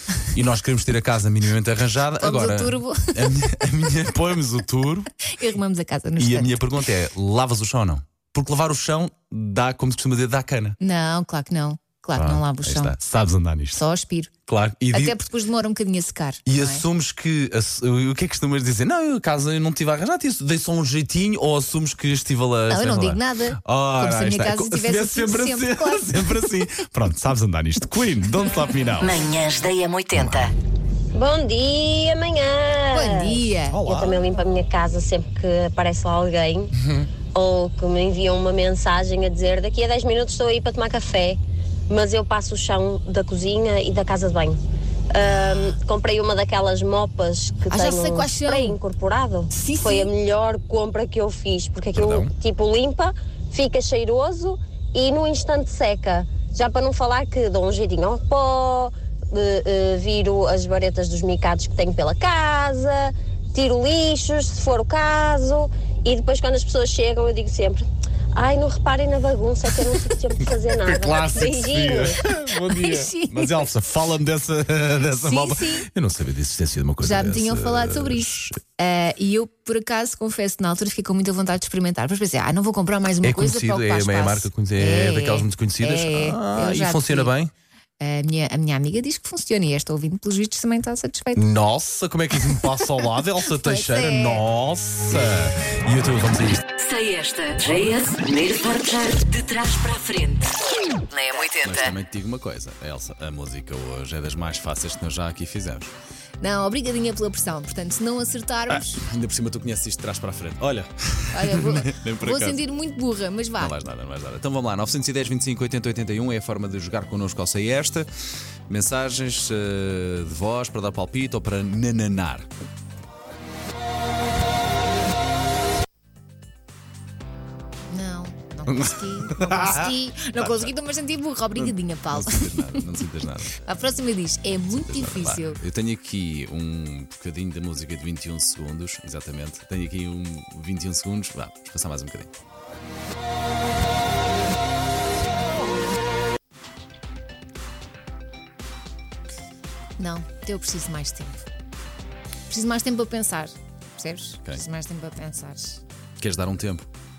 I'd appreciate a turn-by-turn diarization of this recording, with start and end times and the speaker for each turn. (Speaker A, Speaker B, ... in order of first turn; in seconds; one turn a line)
Speaker A: 0.3-5.1
Speaker B: 2.2-3.5
Speaker B: 5.2-6.7
Speaker A: 6.2-10.8
Speaker B: 10.8-12.9
Speaker A: 12.2-13.8
Speaker B: 13.7-14.3
Speaker A: 14.5-15.2
Speaker B: 14.9-16.8
Speaker A: 16.4-29.2
Speaker B: 22.7-26.3
Speaker C: 29.0-30.5
Speaker A: 30.1-30.5
Speaker D: 31.1-36.7
Speaker B: 32.9-33.8
Speaker A: 33.7-34.2
Speaker A: 36.8-37.1
Speaker D: 37.3-41.4
Speaker D: 41.9-44.6
Speaker D: 45.1-72.2
Speaker B: 47.7-48.8
Speaker B: 49.5-50.1
Speaker A: 51.9-52.3
Speaker A: 70.4-78.6
Speaker B: 72.6-73.7
Speaker B: 75.2-75.9
Speaker B: 77.0-87.3
Speaker A: 83.2-87.5
Speaker B: 88.0-91.4
Speaker A: 91.3-96.8
Speaker B: 93.5-94.4
Speaker C: 96.8-100.5
Speaker C: 101.1-101.9
Speaker A: 101.5-105.9
Speaker B: 106.4-109.0
Speaker A: 108.7-112.6
Speaker B: 111.3-113.7
Speaker A: 113.6-118.1
Speaker A: 118.7-122.5
Speaker B: 127.9-132.8
Speaker A: 128.7-130.7
Speaker A: 131.6-133.6
Speaker B: 133.5-135.6
Speaker A: 134.7-142.3
Speaker B: 150.0-151.4
Speaker B: 152.5-155.8
Speaker A: 156.2-156.9